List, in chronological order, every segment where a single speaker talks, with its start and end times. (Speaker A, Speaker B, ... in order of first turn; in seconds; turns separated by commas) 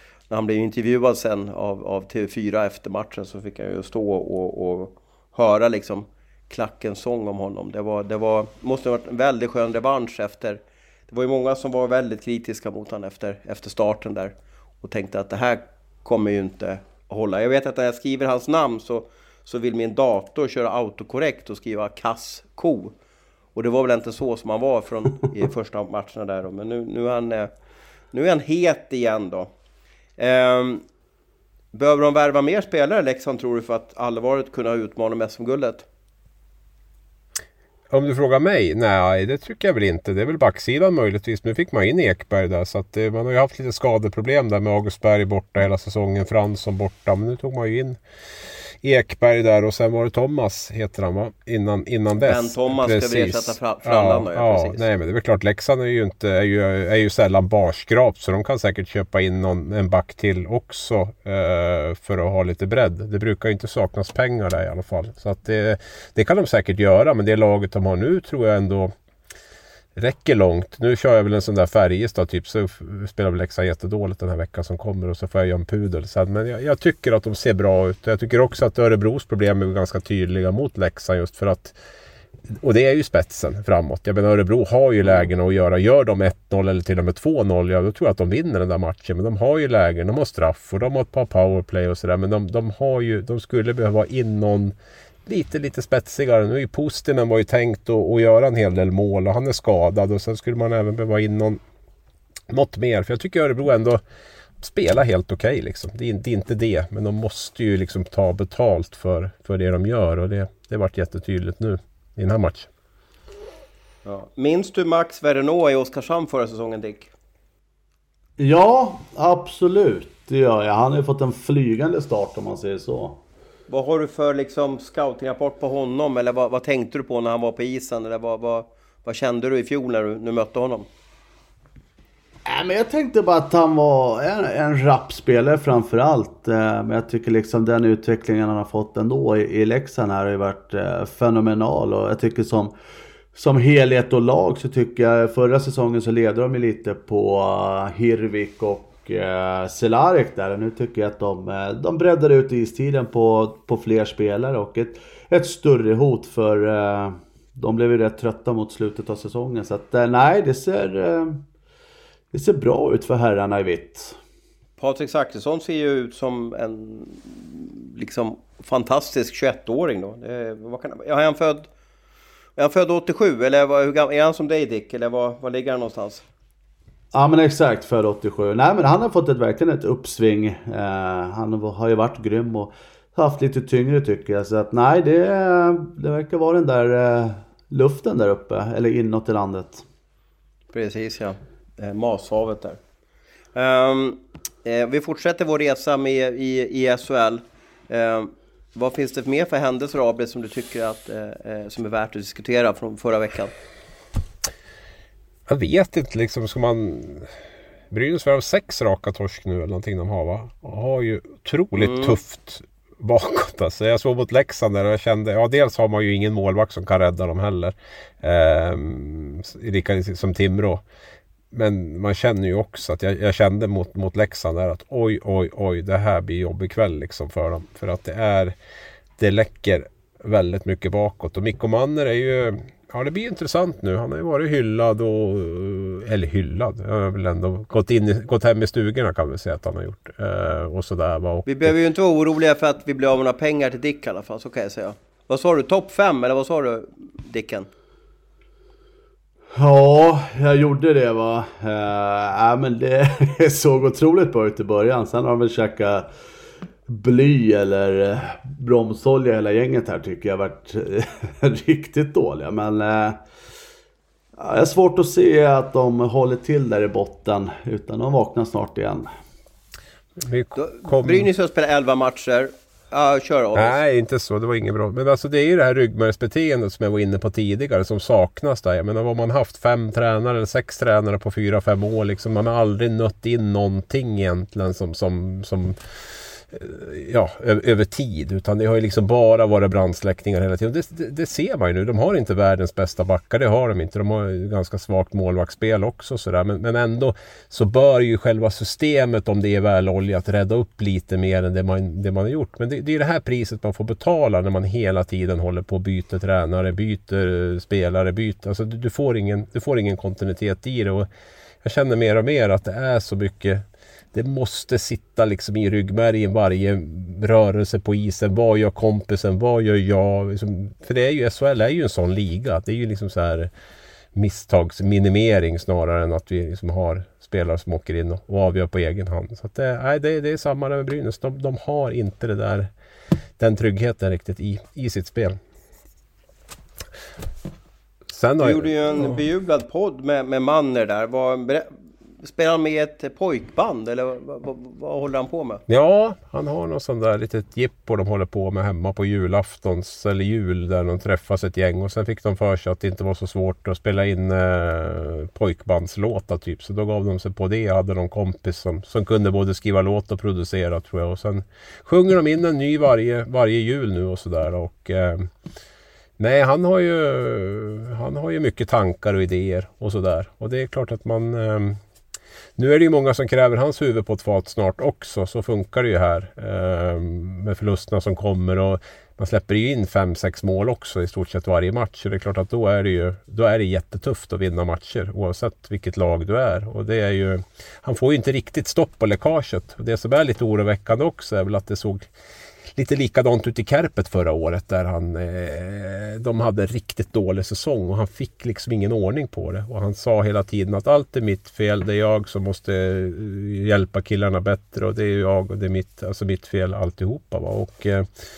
Speaker A: 0.3-22.9, Speaker A: 23.5-27.5, Speaker A: 28.1-29.5, Speaker A: 30.2-30.8, Speaker A: 31.7-35.8, Speaker B: 37.9-48.0, Speaker B: 48.8-68.9, Speaker A: 52.2-54.8, Speaker B: 70.0-81.8, Speaker B: 82.5-94.7, Speaker B: 95.2-101.6, Speaker B: 102.5-104.0, Speaker B: 104.6-112.7, Speaker A: 114.0-117.1, Speaker C: 118.4-123.2, Speaker A: 123.7-130.9, Speaker C: 132.4-142.7, Speaker C: 143.3-161.4, Speaker C: 162.3-164.2, Speaker A: 164.8-171.7, Speaker A: 172.6-176.2, Speaker C: 177.1-189.8, Speaker A: 190.7-192.8, Speaker A: 193.5-203.5, Speaker B: 205.5-207.3, Speaker B: 207.9-220.8, Speaker A: 211.8-212.2, Speaker B: 221.5-228.5, Speaker B: 229.2-241.7, Speaker A: 241.4-247.7, Speaker C: 249.5-256.1, Speaker C: 256.9-263.2, Speaker C: 264.4-269.1, Speaker B: 270.2-271.3, Speaker A: 270.6-273.8, Speaker B: 273.5-285.8, Speaker B: 286.4-311.1, Speaker B: 311.6-323.5, Speaker B: 324.1-332.7, Speaker B: 333.4-335.4, Speaker B: 338.1-339.2, Speaker A: 338.4-345.6, Speaker B: 345.7-365.3, Speaker B: 366.2-371.8, Speaker B: 372.6-392.1, Speaker B: 392.7-408.1